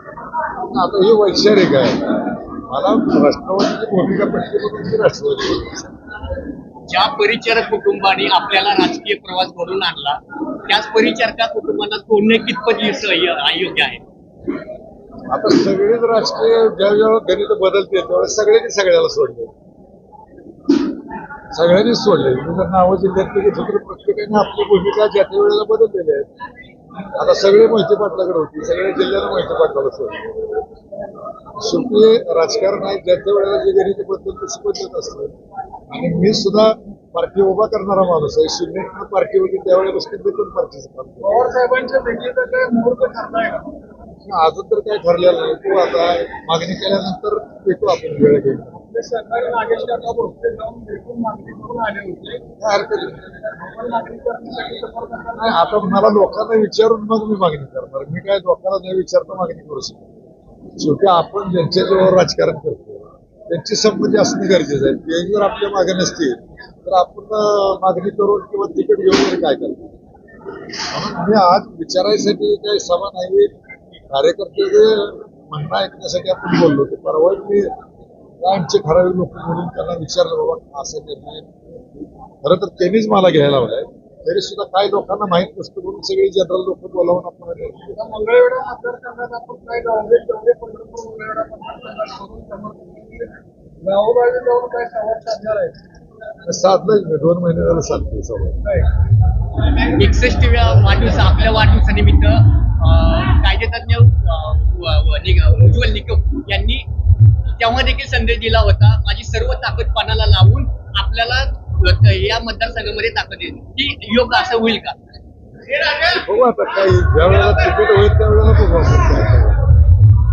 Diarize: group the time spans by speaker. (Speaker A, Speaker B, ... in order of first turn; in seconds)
Speaker A: 0.7-5.9, 15.3-19.5, 21.5-26.3, 27.1-30.2, 31.6-35.4, 35.9-41.4, 44.2-48.8, 52.6-53.3, 55.3-60.1, 60.8-69.9, 70.9-73.5, 74.1-77.7, 78.4-81.5, 82.4-88.0, 96.4-98.6, 115.8-119.7
Speaker B: 6.9-14.0, 99.9-106.8, 107.6-115.0
Speaker C: 41.2-43.8, 48.7-52.4, 53.5-55.8, 88.0-95.8, 98.6-98.9